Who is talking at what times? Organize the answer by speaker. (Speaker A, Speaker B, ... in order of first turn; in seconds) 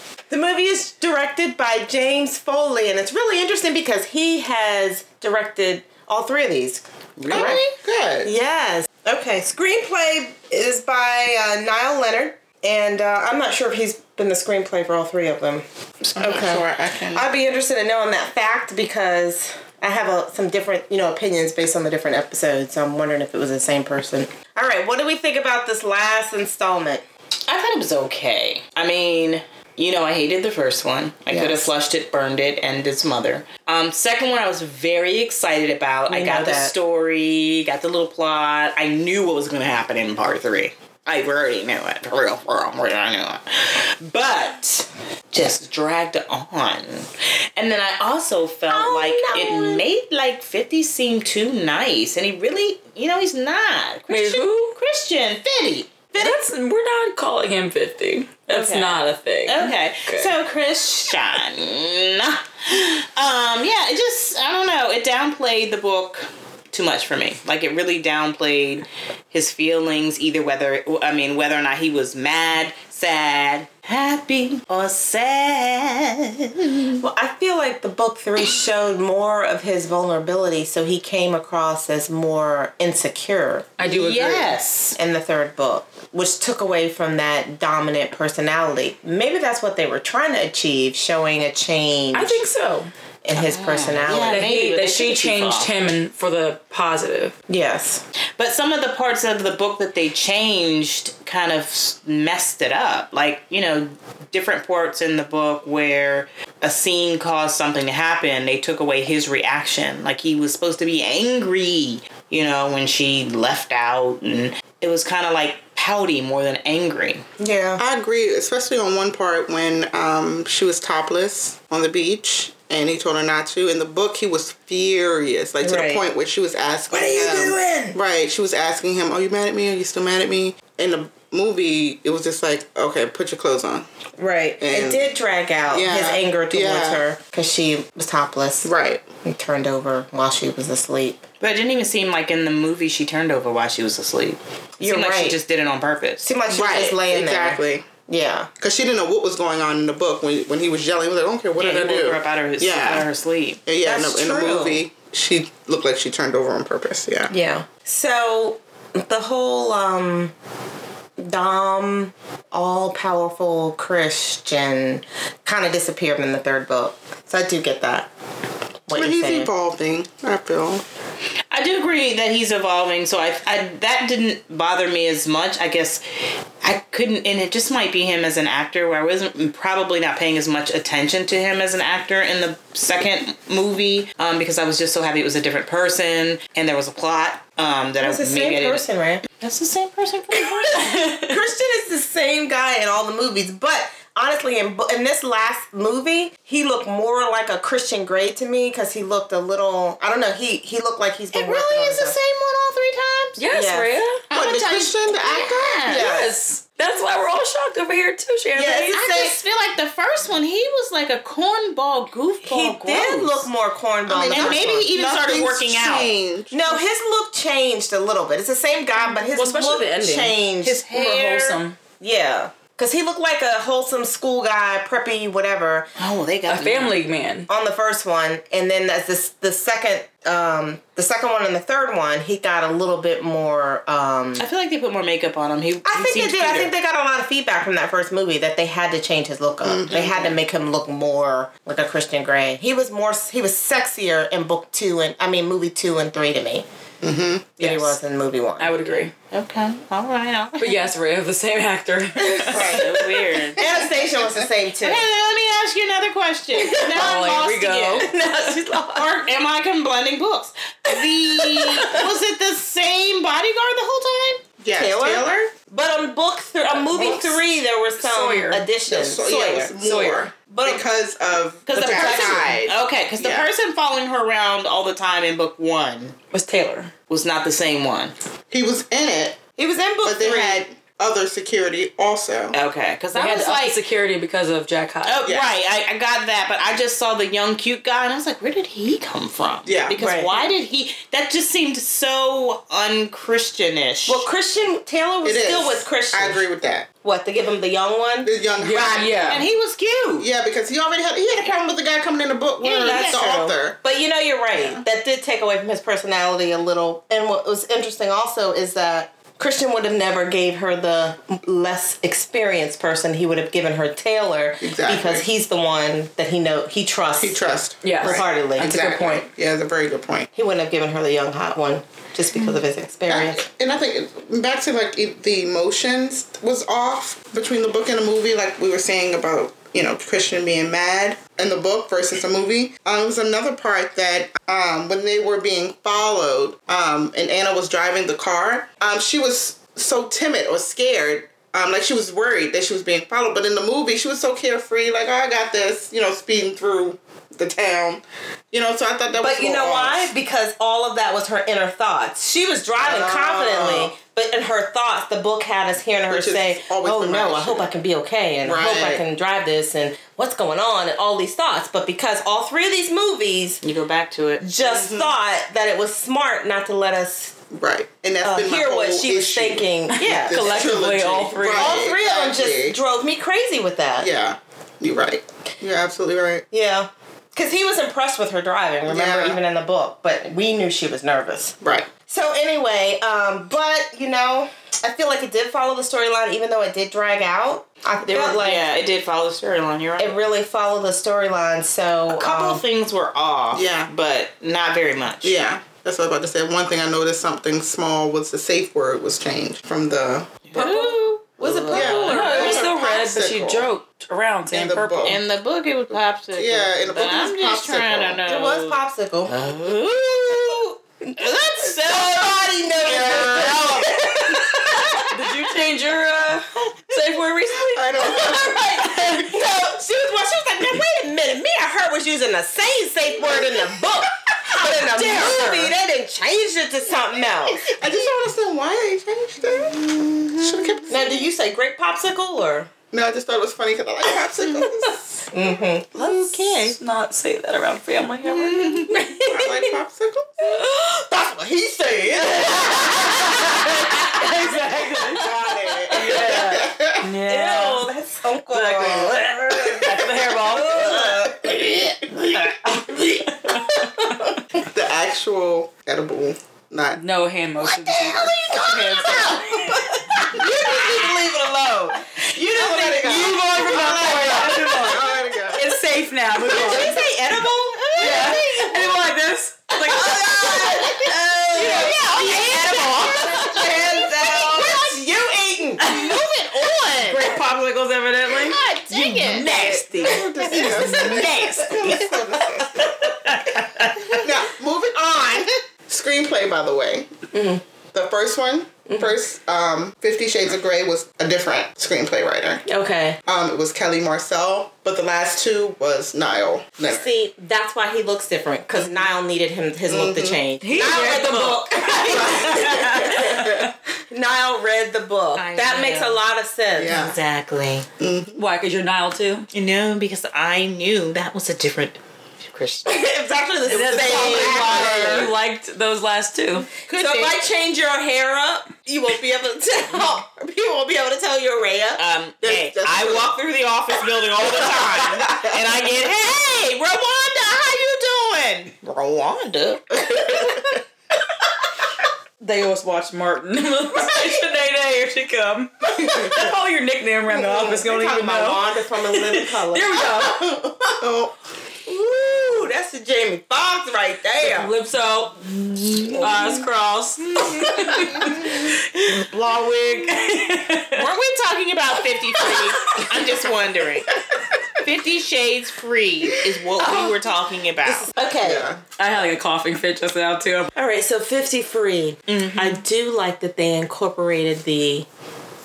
Speaker A: 0.3-7.6, 8.2-15.6, 16.2-27.0, 31.3-31.7, 36.1-36.7, 48.7-49.8, 77.0-92.4, 93.2-94.4, 97.5-98.0, 117.4-117.8, 125.6-126.0, 126.9-128.0, 134.2-138.7, 139.2-141.2, 144.8-145.4, 146.2-148.5, 153.8-154.8, 157.3-160.3, 161.2-168.1, 168.9-169.5, 188.0-189.2, 190.7-202.2, 203.5-203.9, 205.9-206.3, 208.5-209.4, 212.4-214.9, 216.5-220.8, 222.0-225.9, 227.5-234.4, 235.8-246.6, 247.6-248.9, 252.2-252.9, 253.6-255.1, 256.5-257.3, 258.0-259.2, 261.2-262.0, 264.7-269.8, 270.5-270.8, 271.8-272.7, 279.6-280.6, 290.0-290.5, 294.1-296.4, 297.0-299.1, 302.7-317.4, 318.0-319.2, 320.3-323.4, 349.1-363.6, 364.4-367.3, 368.2-370.6, 371.5-374.1, 376.5-381.6, 382.1-388.7, 390.0-392.6, 400.6-402.6, 408.2-409.3, 411.9-415.0, 418.0-418.5, 419.2-427.9, 430.9-432.7, 435.3-436.2, 438.9-439.5, 441.8-442.9, 447.2-449.9, 450.4-451.5, 457.8-462.0, 462.5-463.0, 463.6-465.1, 466.4-468.9, 469.8-475.9, 479.2-481.3, 487.3-487.6, 492.6-493.2, 496.9-507.0, 512.9-515.3, 517.0-522.0, 537.3-540.6, 541.9-544.7, 556.8-557.1, 557.8-558.7, 560.7-565.1
Speaker B: 7.2-7.7, 27.5-56.4, 58.5-77.0, 83.8-85.0, 93.3-95.7, 98.4-117.2, 141.4-146.3, 151.6-153.6, 171.5-176.0, 176.6-188.8, 189.4-190.8, 201.3-203.4, 204.3-206.1, 208.9-213.5, 214.2-216.1, 220.6-221.6, 226.0-227.0, 234.4-236.7, 249.3-250.8, 252.5-253.7, 254.8-258.1, 258.9-264.4, 271.7-276.1, 277.1-278.1, 282.5-283.8, 285.0-294.2, 299.3-300.3, 302.6-303.3, 363.6-364.4, 388.0-390.2, 392.1-395.4, 400.5-400.9, 401.4-402.4, 405.0-414.0, 430.0-430.9, 436.1-436.7, 438.2-438.9, 458.5-459.4, 468.1-468.5, 471.6-473.6, 475.8-477.2, 478.4-479.6, 480.6-482.1, 482.8-484.2, 505.3-506.2, 506.8-507.9, 509.5-513.0, 514.0-515.3, 516.9-517.4, 522.0-530.0, 551.0-554.1, 554.8-558.1, 562.3-562.8
Speaker C: 7.2-8.3, 16.1-17.2, 117.8-133.9, 134.6-135.0, 135.7-137.0, 138.6-139.0, 146.5-147.8, 148.6-153.1, 153.6-157.3, 168.9-170.8, 204.3-205.9, 214.1-216.8, 239.6-240.4, 247.0-247.5, 264.6-265.3, 266.9-267.4, 268.9-272.6, 273.2-273.5, 278.5-279.4, 280.0-282.6, 285.2-285.5, 289.6-290.0, 295.2-296.9, 298.2-299.4, 300.2-303.8, 304.5-304.8, 314.6-315.2, 317.2-320.3, 323.1-350.1, 352.8-353.9, 356.1-357.7, 358.4-359.0, 364.6-365.1, 367.5-372.8, 374.0-376.4, 378.9-379.4, 381.6-381.9, 393.5-393.9, 395.2-400.7, 401.7-403.7, 404.5-405.2, 406.3-408.2, 417.7-419.1, 423.2-423.6, 425.0-425.2, 427.6-431.3, 432.9-435.2, 439.2-440.6, 441.9-443.1, 444.5-447.1, 449.1-449.8, 451.0-452.1, 454.5-457.0, 460.4-461.0, 462.3-465.7, 466.5-466.8, 479.4-482.9, 484.1-487.1, 487.9-492.6, 493.2-497.1, 498.7-499.1, 499.9-500.4, 502.4-503.7, 506.8-507.2, 508.0-508.4, 522.5-523.3, 525.1-525.4, 541.0-541.3, 558.4-558.8
Speaker D: 54.1-54.7, 56.2-60.3, 83.8-84.1, 92.1-92.9, 94.3-97.3, 190.8-191.3, 203.4-204.2, 206.0-209.0, 219.0-220.3, 220.9-221.8, 226.5-227.5, 247.6-248.0, 248.6-249.1, 250.6-253.2, 256.9-258.6, 268.0-268.7, 269.8-270.3, 271.9-272.6, 276.3-276.9, 283.1-285.2, 298.6-299.5, 317.8-319.1, 370.0-371.8, 400.6-400.9, 401.7-405.2, 415.1-419.3, 424.9-425.7, 435.9-439.4, 440.4-441.1, 441.9-445.2, 445.9-447.9, 448.5-451.2, 452.6-453.8, 456.9-460.0, 462.4-467.0, 468.0-474.8, 476.8-481.2, 500.6-503.7, 508.4-509.5, 513.7-516.7, 532.4-540.7, 544.4-551.1, 559.0-560.7